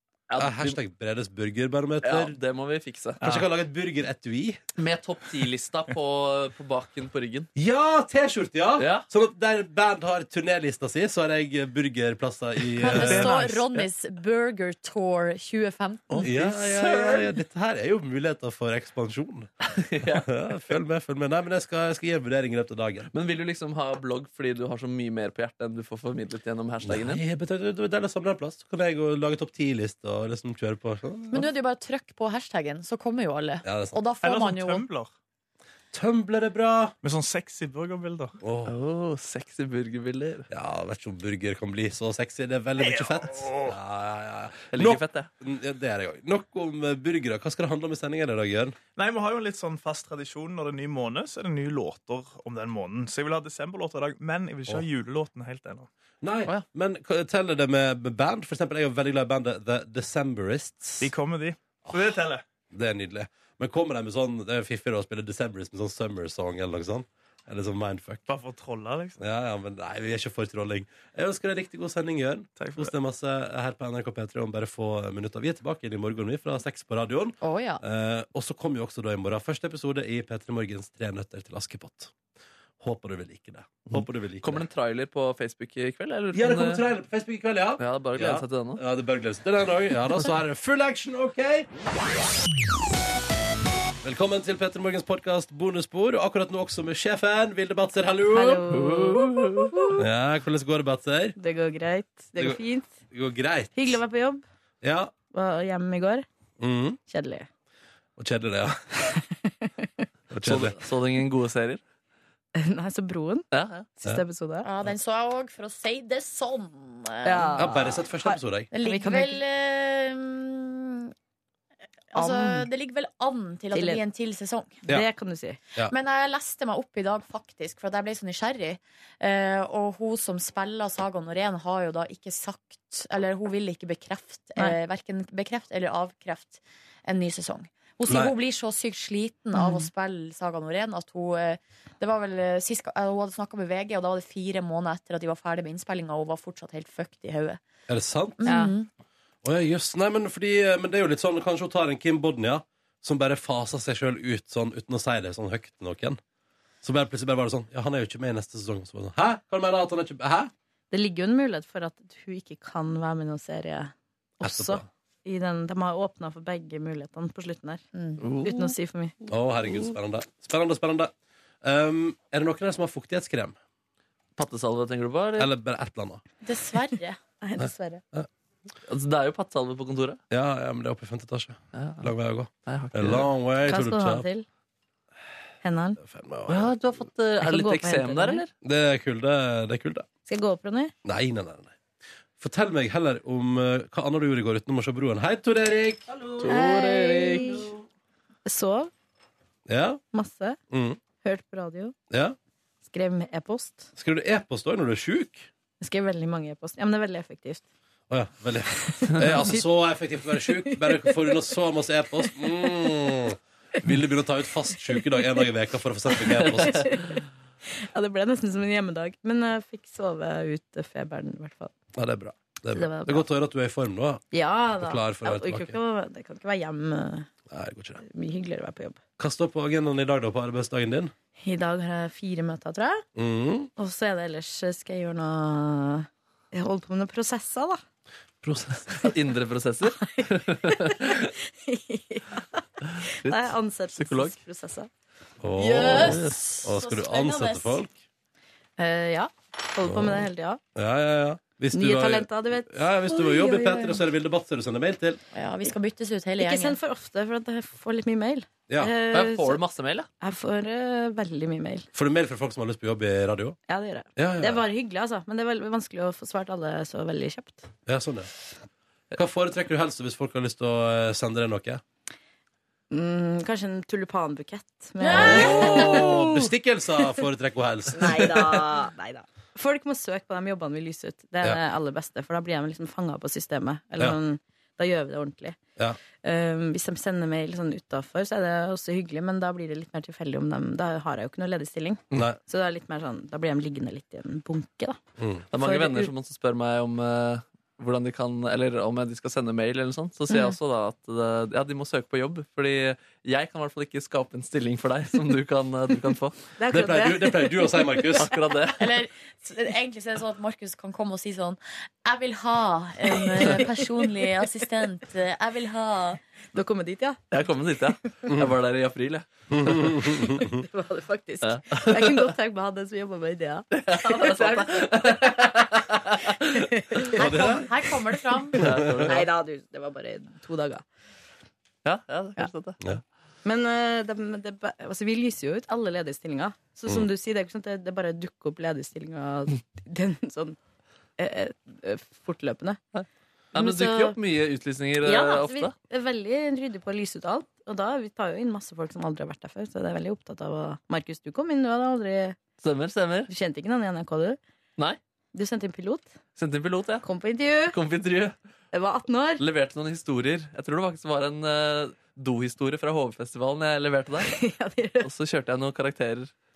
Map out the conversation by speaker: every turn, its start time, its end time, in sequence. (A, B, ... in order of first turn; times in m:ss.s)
0:00.3-0:00.8 A
0:00.4-0:02.4 B
0:02.0-0:03.2 A
0:03.2-0:04.6 B
0:04.8-0:07.5 A
0:07.6-0:13.4 B
0:08.8-0:09.0 A
0:12.8-0:16.3 C
0:13.0-0:13.4 D
0:16.2-0:19.5 B
0:16.2-0:17.3 A
0:19.7-0:20.3 A
0:20.1-0:23.1 B
0:23.1-0:27.2 A
0:26.8-0:31.5 B
0:31.3-0:34.8 C
0:33.6-0:34.0 B
0:34.2-0:35.1 D
0:35.9-0:37.0 B
0:37.0-0:38.4 D
0:38.4-0:38.7 B
0:38.6-0:40.5 A
0:40.5-0:48.8 B
0:42.8-0:43.8 D
0:44.7-0:45.3 A
0:49.0-0:55.9 D
0:56.2-1:01.1 B
1:01.0-1:02.4 D
1:02.7-1:08.2 B
1:08.3-1:09.2 D
1:09.2-1:22.1 B
1:12.6-1:12.9 D
1:17.4-1:17.8 C
1:22.8-1:24.6 B
1:23.9-1:26.8 A
1:26.3-1:31.7 B
1:27.8-1:28.8 A
1:34.0-1:38.6 B
1:38.3-1:40.0 E
1:38.7-1:39.7 A
1:40.0-1:41.4 B
1:41.4-1:42.9 E
1:42.4-1:44.0 B
1:43.8-1:44.4 E
1:44.8-1:45.1 B
1:45.3-1:46.2 E
1:46.6-1:47.0 B
1:47.1-1:47.5 E
1:48.2-1:48.9 B
1:49.1-1:50.0 E
1:50.3-1:50.8 B
1:50.4-1:51.8 A
1:52.5-1:53.4 E
1:53.5-1:53.9 A
1:54.0-1:54.7 E
1:54.6-1:57.6 C
1:57.2-1:59.4 E
1:57.6-1:58.7 B
1:58.7-2:01.1 C
2:02.1-2:04.8 C
2:02.1-2:02.7 E
2:03.7-2:04.0 E
2:04.8-2:05.6 E
2:05.9-2:27.6 C
2:18.1-2:18.3 B
2:19.5-2:19.9 E
2:27.9-2:28.4 B
2:28.4-2:28.9 C
2:28.4-2:28.7 E
2:29.4-2:36.2 B
2:36.8-2:40.5 B
2:40.9-2:47.8 E
2:44.4-2:44.8 B
2:47.9-2:48.2 C
2:48.2-2:48.7 A
2:48.4-2:49.1 E
2:49.3-2:51.1 B
2:51.6-2:53.6 B
2:54.4-2:55.5 A
2:55.4-2:56.2 B
2:56.4-2:57.2 C
2:57.4-2:58.0 E
2:57.6-2:58.3 B
2:58.9-3:00.2 A
3:00.3-3:04.3 B
3:01.7-3:02.1 A
3:02.6-3:03.3 A
3:03.6-3:04.4 E
3:05.6-3:06.0 E
3:06.0-3:06.8 B
3:06.5-3:08.5 A
3:07.4-3:08.4 E
3:08.6-3:10.1 B
3:10.2-3:10.9 E
3:11.0-3:11.7 B
3:12.4-3:16.1 B
3:16.1-3:17.7 A
3:16.4-3:17.7 E
3:18.4-3:18.9 E
3:19.7-3:20.0 B
3:20.1-3:20.6 E
3:20.7-3:21.0 B
3:21.2-3:21.9 E
3:22.1-3:22.4 B
3:22.8-3:23.9 E
3:24.0-3:25.5 B
3:25.8-3:27.6 E
3:28.1-3:36.9 B
3:28.8-3:29.6 E
3:30.2-3:31.4 E
3:32.2-3:32.7 E
3:34.9-3:35.3 E
3:36.1-3:37.2 E
3:36.4-3:36.8 A
3:37.8-3:41.7 E
3:41.9-3:44.2 B
3:42.7-3:43.3 E
3:44.3-3:47.3 E
3:44.8-3:45.8 B
3:47.5-3:48.0 B
3:48.0-3:49.0 E
3:49.2-3:51.1 B
3:51.4-3:53.0 E
3:53.2-3:53.7 B
3:53.8-3:57.8 E
3:58.4-3:59.0 B
3:58.9-4:01.3 A
4:00.0-4:02.6 E
4:02.9-4:04.4 A
4:03.2-4:04.9 E
4:05.4-4:07.9 B
4:05.6-4:06.0 E
4:05.6-4:07.8 C
4:08.8-4:10.6 E
4:09.8-4:15.2 B
4:11.7-4:14.0 E
4:15.3-4:16.8 C
4:16.4-4:19.6 E
4:19.1-4:20.1 A
4:20.2-4:21.9 E
4:21.9-4:23.6 B
4:23.7-4:27.7 E
4:24.2-4:24.6 B
4:27.8-4:28.3 B
4:29.1-4:31.8 B
4:32.9-4:36.4 E
4:35.1-4:38.5 B
4:35.4-4:36.0 A
4:37.9-4:45.6 E
4:46.2-4:55.0 E
4:52.1-4:52.4 B
4:55.2-4:55.4 B
4:55.5-5:06.4 A
4:55.6-4:56.1 E
5:00.3-5:00.6 E
5:06.6-5:08.1 E
5:06.7-5:08.3 B
5:08.2-5:09.0 A
5:08.8-5:16.2 C
5:13.4-5:13.9 E
5:16.5-5:17.2 E
5:17.3-5:19.9 A
5:19.5-5:20.6 B
5:20.4-5:25.7 E
5:21.4-5:22.3 A
5:23.7-5:26.2 A
5:26.5-5:27.2 E
5:27.2-5:27.7 B
5:27.2-5:28.6 C
5:28.6-5:29.2 A
5:28.6-5:29.1 B
5:29.1-5:30.8 E
5:31.8-5:32.8 A
5:33.4-5:40.6 E
5:41.2-5:42.8 E
5:42.9-5:45.7 A
5:43.5-5:44.2 E
5:45.0-5:52.4 E
5:52.6-5:53.3 A
5:53.3-5:54.4 E
5:55.3-5:56.1 E
5:56.4-5:57.0 A
5:57.0-5:57.8 E
5:57.7-5:58.3 A
5:58.7-5:59.4 E
5:59.4-6:04.3 A
6:04.2-6:05.1 E
6:05.0-6:06.3 A